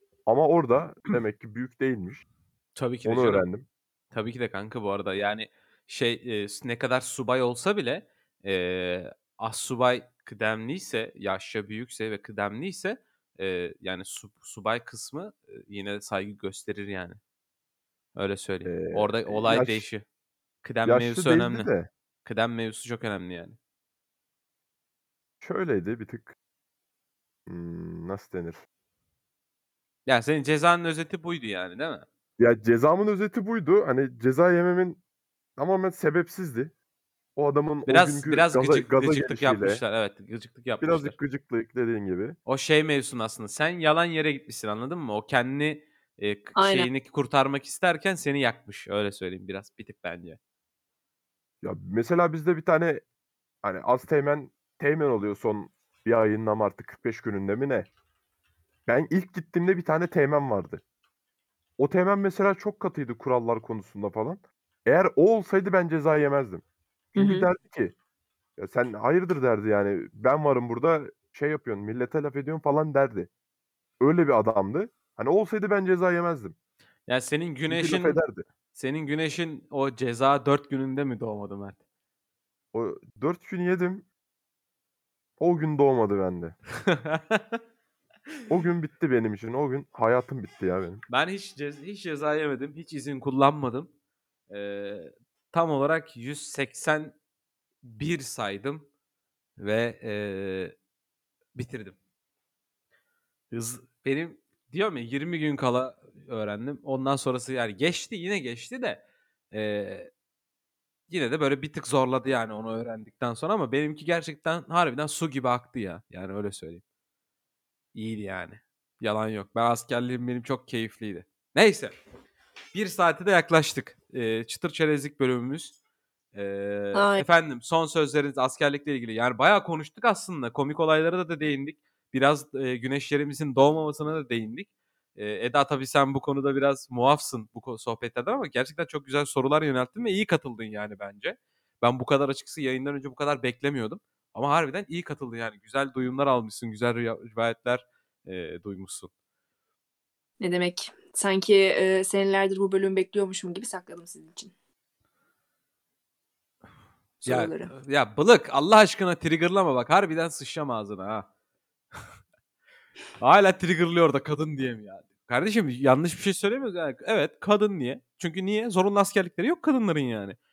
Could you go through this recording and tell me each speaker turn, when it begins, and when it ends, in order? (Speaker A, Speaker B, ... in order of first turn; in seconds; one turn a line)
Speaker A: 0.2-2.2
Speaker B: 2.8-3.5
Speaker A: 3.0-3.7
Speaker B: 4.1-17.2
Speaker B: 18.1-20.0
Speaker A: 18.6-19.8
Speaker B: 20.6-21.7
Speaker A: 20.9-21.9
Speaker B: 22.2-23.6
Speaker A: 25.4-26.3
Speaker A: 27.5-28.6
Speaker B: 30.1-32.0
Speaker A: 32.4-35.0
Speaker A: 35.6-36.7
Speaker A: 37.4-39.8
Speaker B: 37.9-41.1
Speaker A: 40.8-42.4
Speaker B: 42.5-50.4
Speaker C: 46.5-46.9
Speaker A: 51.6-53.0
Speaker A: 53.6-57.9
Speaker A: 58.9-60.8
Speaker A: 61.8-68.0
Speaker C: 67.2-67.5
Speaker A: 68.6-73.3
Speaker A: 74.0-76.5
Speaker B: 77.1-78.2
Speaker A: 77.7-78.5
Speaker B: 78.7-81.8
Speaker A: 82.7-84.1
Speaker A: 85.4-86.6
Speaker B: 86.9-87.6
Speaker A: 88.5-91.0
Speaker B: 91.1-93.9
Speaker B: 94.5-97.2
Speaker B: 97.8-98.9
Speaker B: 99.6-100.7
Speaker B: 101.5-102.0
Speaker B: 103.5-110.1
Speaker B: 111.1-116.8
Speaker B: 117.9-122.0
Speaker B: 122.7-125.7
Speaker B: 126.3-149.1
Speaker C: 126.9-127.2
Speaker C: 150.4-154.5
Speaker C: 157.2-157.7
Speaker B: 157.2-161.3
Speaker B: 163.2-170.4